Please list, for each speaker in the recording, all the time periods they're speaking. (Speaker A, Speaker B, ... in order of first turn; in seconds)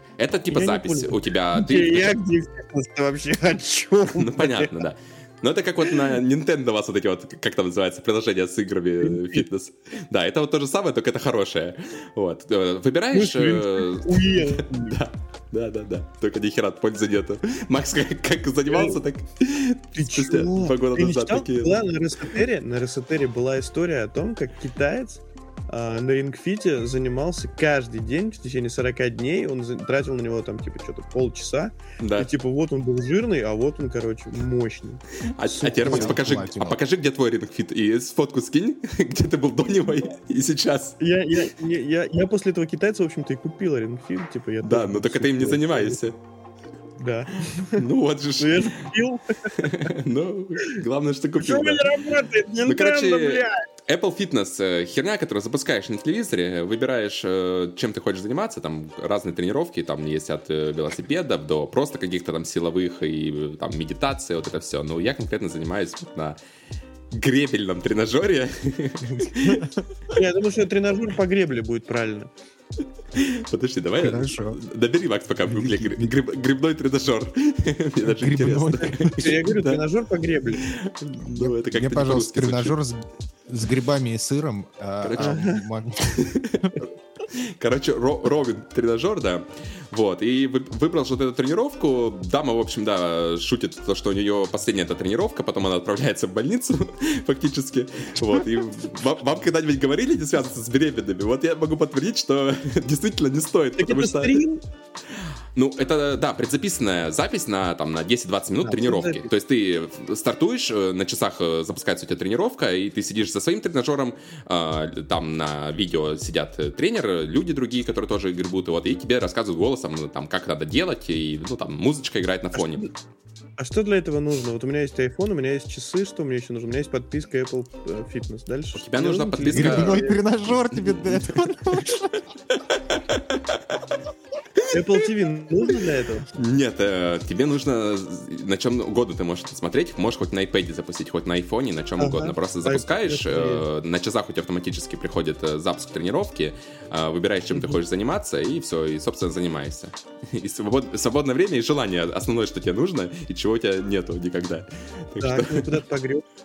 Speaker A: 0.2-2.2, 4.1-21.8, 32.0-32.3, 35.3-41.0, 44.6-46.2, 47.6-48.9, 49.5-51.9, 52.6-66.4, 67.1-69.7, 73.1-79.8, 80.6-82.8, 85.0-85.5, 86.0-104.4, 105.1-122.8, 128.8-132.0, 132.5-133.9, 134.6-135.0, 136.3-155.8
Speaker B: 0.5-4.8, 9.0-9.4, 13.1-15.0, 18.7-19.0, 20.0-36.2, 41.0-46.0, 47.0-47.9, 48.4-49.9, 51.4-53.6, 70.1-72.3, 78.9-80.6, 85.2-85.6, 103.8-104.6, 108.6-109.3, 122.5-122.9, 123.6-130.2, 134.7-136.3, 142.0-143.6, 147.5-147.8, 155.2-156.2
Speaker C: 35.8-36.8, 69.0-69.9, 74.0-74.6, 75.5-76.1, 78.0-79.3, 81.2-86.8, 129.5-132.2